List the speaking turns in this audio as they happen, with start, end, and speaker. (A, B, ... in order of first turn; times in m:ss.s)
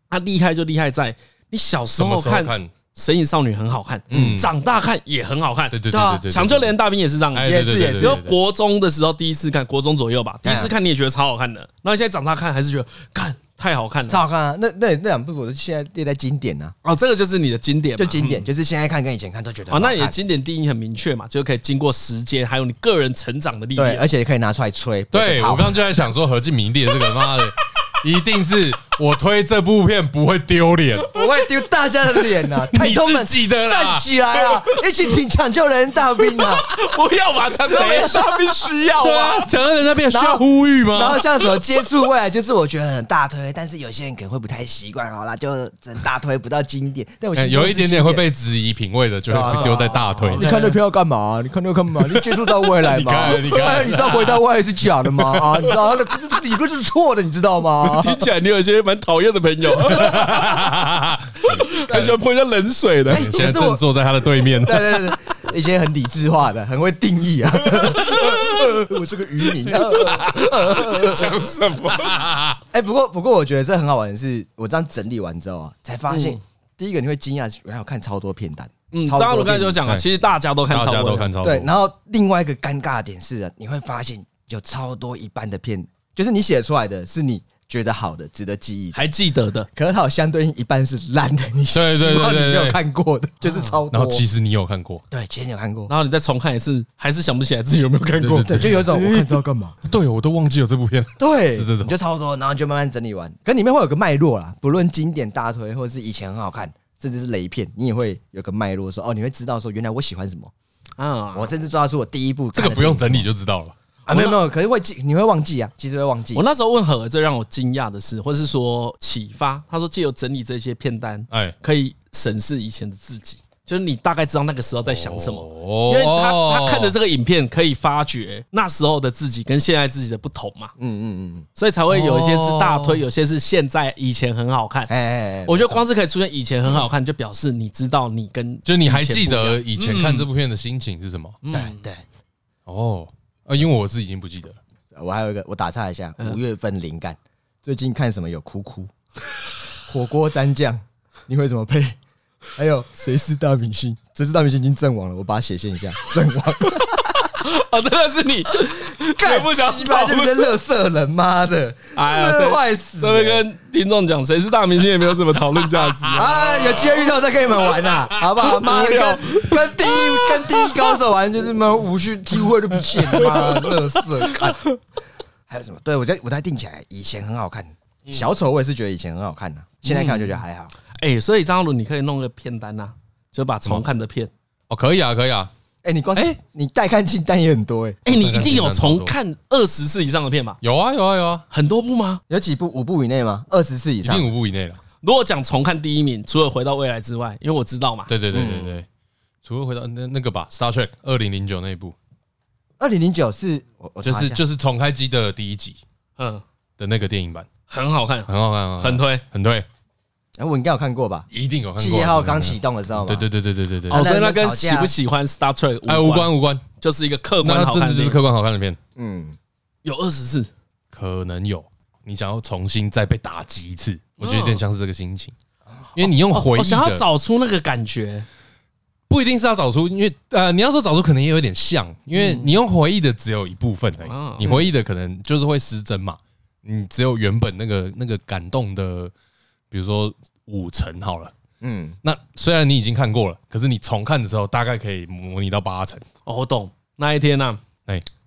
0:00.1-0:14.2 A
0:02.0-0:02.7 B
0:04.1-0:04.4 C
0:04.1-0:04.5 B
0:05.7-0:06.7 B
0:05.9-0:06.2 C
0:07.3-0:08.3 B
0:07.4-0:08.2 C
0:10.4-0:10.7 C
0:14.1-0:16.7 C
0:16.8-0:18.4 A
0:18.0-0:20.2 C
0:19.7-0:24.0 A
0:23.8-0:26.0 C
0:25.1-0:31.1 B
0:31.1-0:36.7 C
0:32.6-0:34.1 B
0:36.2-0:39.5 A
0:37.6-0:38.7 C
0:39.0-0:41.2 B
0:40.1-0:48.2 C
0:47.3-0:50.5 B
0:49.3-0:58.2 C
0:49.4-0:50.8 A
0:52.8-0:54.4 B
0:55.2-0:55.6 B
0:57.8-1:00.6 A
0:59.9-1:01.8 B
1:01.4-1:03.3 A
1:01.9-1:02.2 C
1:03.1-1:03.8 C
1:03.1-1:05.1 B
1:04.5-1:11.4 C
1:07.8-1:08.6 A
1:09.6-1:12.2 A
1:11.9-1:12.6 B
1:12.7-1:19.8 C
1:16.1-1:16.4 A
1:18.9-1:21.3 A
1:20.7-1:21.7 B
1:21.4-1:29.0 C
1:28.9-1:29.7 A
1:29.7-1:34.2 C
1:31.7-1:32.8 B
1:33.4-1:33.8 A
1:33.9-1:35.0 B
1:35.1-1:35.9 C
1:35.9-1:38.8 A
1:38.2-1:39.3 B
1:38.4-1:39.8 C
1:39.8-1:41.9 B
1:41.2-1:50.5 C
1:51.0-1:51.5 A
1:51.3-1:53.3 C
1:52.5-1:53.7 B
1:54.1-1:54.4 A
1:54.1-1:56.4 C
1:56.3-2:10.7 A
2:04.9-2:06.9 B
2:10.8-2:11.5 C
2:11.6-2:14.9 A
2:11.9-2:13.0 B
2:14.9-2:15.8 C
2:15.4-2:20.3 A
2:18.6-2:21.4 B
2:21.4-2:21.8 A
2:21.5-2:22.0 C
2:22.7-2:24.6 B
2:24.9-2:28.9 C
2:29.8-2:32.0 C
2:32.6-2:37.3 C
2:37.3-2:40.5 A
2:38.9-2:43.4 C
2:41.9-2:46.9 A
2:45.9-2:46.9 B
2:46.1-2:54.6 C
2:48.4-2:50.8 A
2:52.9-2:54.5 A
2:55.5-3:00.7 C
2:59.8-3:00.4 A
3:01.0-3:04.3 A
3:04.7-3:05.5 B
3:05.8-3:08.0 C
3:08.0-3:10.6 A
3:08.1-3:09.1 B
3:10.6-3:11.4 B
3:11.5-3:12.2 A
3:12.3-3:14.3 C
3:14.0-3:14.8 B
3:15.0-3:18.1 A
3:18.1-3:18.8 B
3:18.3-3:18.7 C
3:19.4-3:21.9 B
3:22.8-3:24.4 C
3:24.0-3:25.8 B
3:26.2-3:26.4 A
3:26.8-3:27.5 B
3:27.7-3:29.2 A
3:28.3-3:29.6 B
3:30.4-3:33.2 C
3:31.3-3:34.0 B
3:33.9-3:34.9 C
3:33.9-3:38.2 A
3:35.8-3:36.6 B
3:37.4-3:38.8 B
3:39.0-3:39.4 C
3:39.8-3:40.5 A
3:40.9-3:45.3 B
3:44.2-3:44.6 A
3:46.0-3:47.0 B
3:46.3-3:48.3 A
3:49.1-3:59.1 B
3:52.1-3:52.6 A
3:54.0-3:54.6 A
3:59.7-4:01.3 B
4:01.6-4:02.0 C
4:02.0-4:06.0 B
4:06.2-4:07.6 A